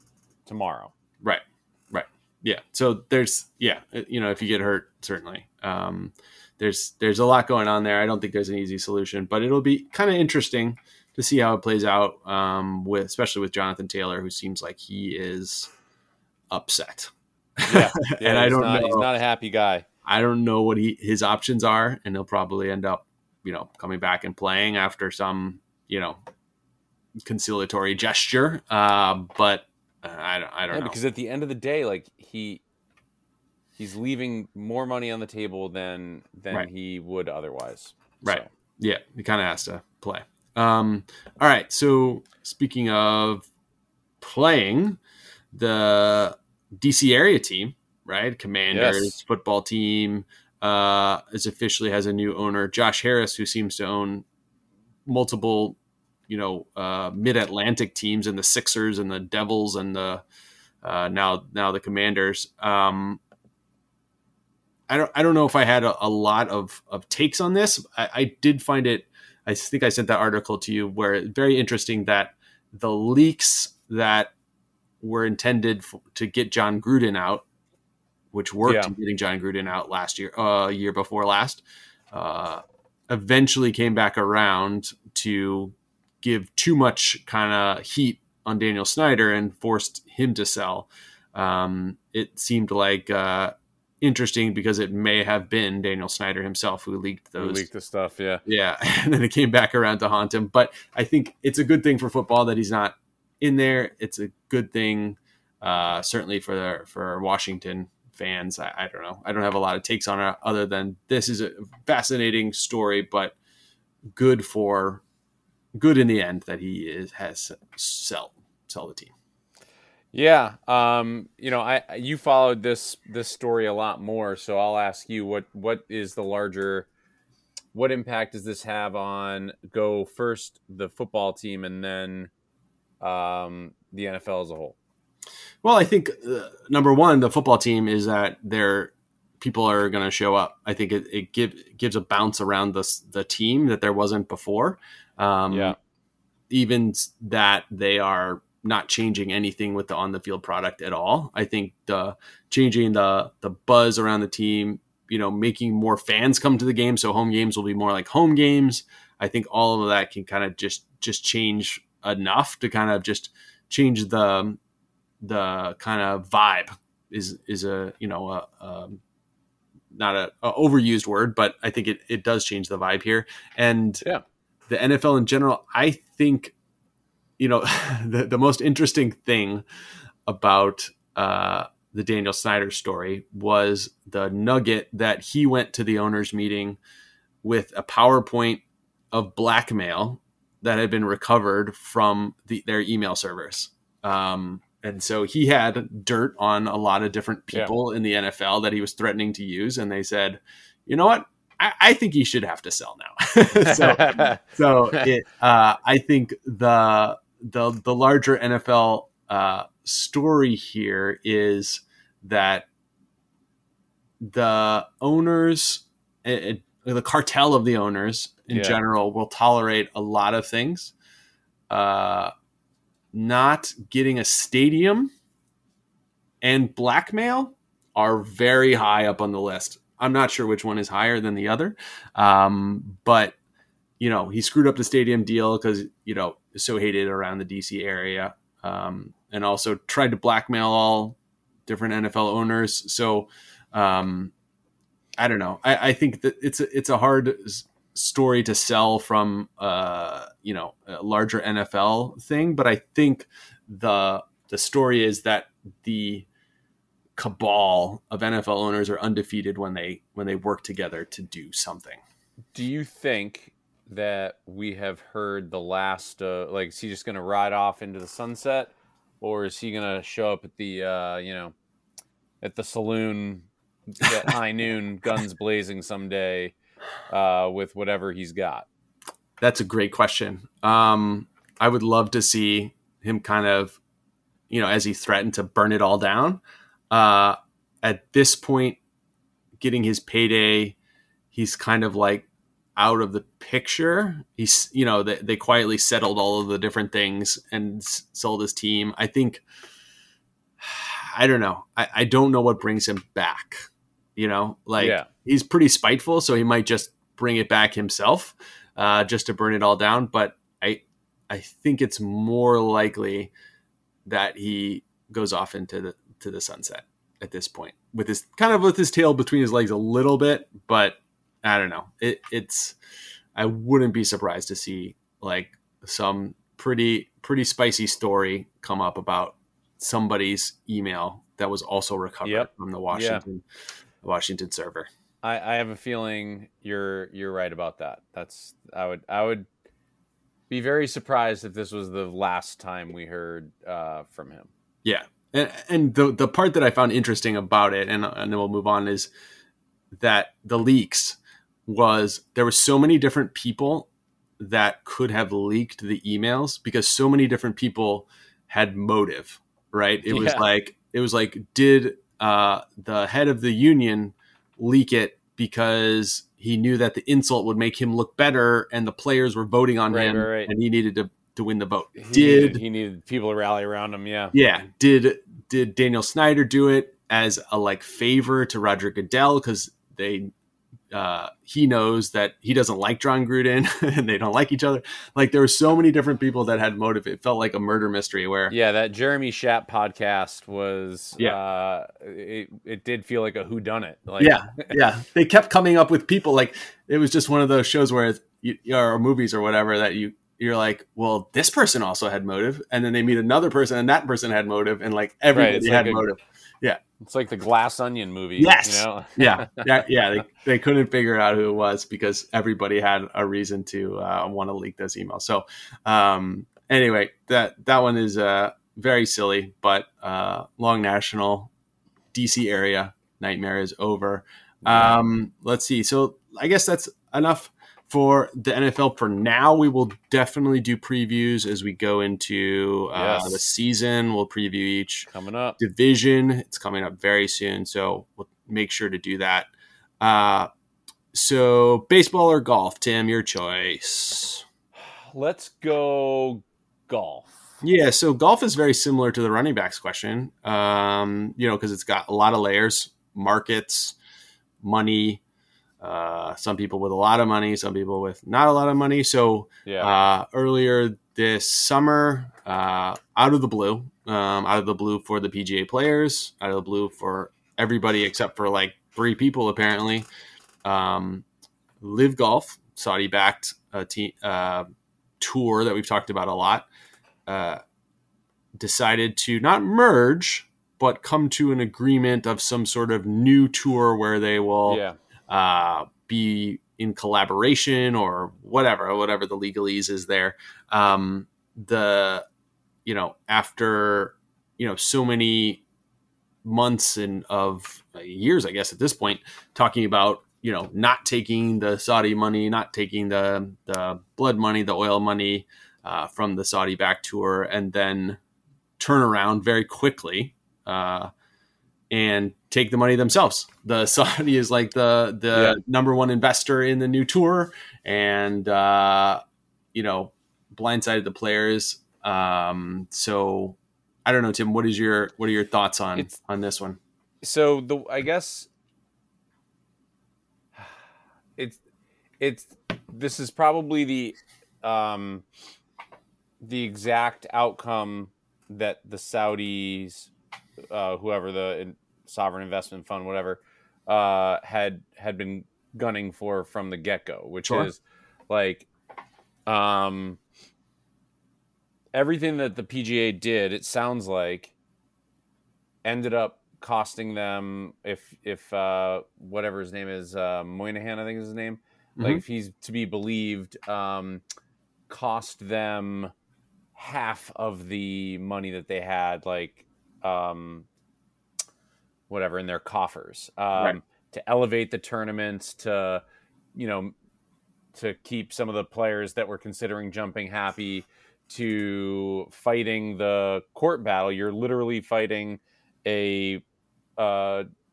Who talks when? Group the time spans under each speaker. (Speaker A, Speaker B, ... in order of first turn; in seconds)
Speaker A: 0.5-0.9, 17.7-19.8, 30.7-32.6, 33.8-38.5, 48.7-49.2, 78.7-78.9, 97.4-98.4, 120.1-126.9, 127.7-132.3, 133.0-134.7, 145.5-145.8, 203.6-205.1, 218.5-218.8, 262.5-271.5, 272.4-276.5, 277.1-278.6, 304.8-305.1, 332.2-333.2, 335.2-339.4, 340.5-344.5, 360.1-360.4, 369.9-370.5, 372.0-374.3, 388.5-394.7, 405.3-406.1, 407.0-409.7, 424.6-425.0, 432.9-433.4, 435.1-435.6, 444.8-447.5, 459.6-459.9, 484.7-485.0, 515.3-515.6, 527.2-528.5, 532.2-535.2, 536.4-540.1, 540.7-548.7, 549.5-550.2, 551.9-554.5, 555.8-564.2, 564.9-566.1, 566.7-570.6, 572.1-576.0, 576.5-576.9, 577.7-586.4, 587.0-587.5
Speaker B: 1.2-15.7, 16.5-19.1, 20.0-26.2, 27.2-31.0, 38.2-43.5, 44.2-45.0, 45.5-54.2, 55.0-55.8, 56.3-60.2, 60.8-63.2, 64.9-74.3, 75.0-77.4, 78.3-97.7, 98.5-113.3, 114.1-115.0, 115.8-119.1, 135.6-145.8, 146.5-164.6, 165.2-169.0, 169.9-174.0, 174.7-176.5, 177.4-179.6, 180.3-186.8, 187.4-212.7, 214.2-220.9, 221.7-222.3, 223.1-225.1, 226.4-233.3, 234.0-244.3, 245.2-256.2, 257.1-262.0, 279.4-283.8, 284.5-288.8, 289.6-290.8, 291.3-299.4, 300.6-303.6, 304.1-313.3, 314.1-322.8, 323.3-333.4, 334.0-334.9, 344.8-349.1, 349.9-353.9, 354.4-372.6, 374.3-380.3, 380.9-388.5, 394.2-406.8, 408.4-421.5, 422.1-440.5, 441.1-444.4, 447.6-453.9, 454.6-455.2, 455.8-470.1, 470.6-471.2, 471.8-474.7, 475.2-476.7, 477.3-477.6, 478.6-492.2, 492.8-495.6, 496.4-508.2, 508.8-511.1, 511.9-519.2, 519.7-526.8, 547.4-547.7, 562.0-562.2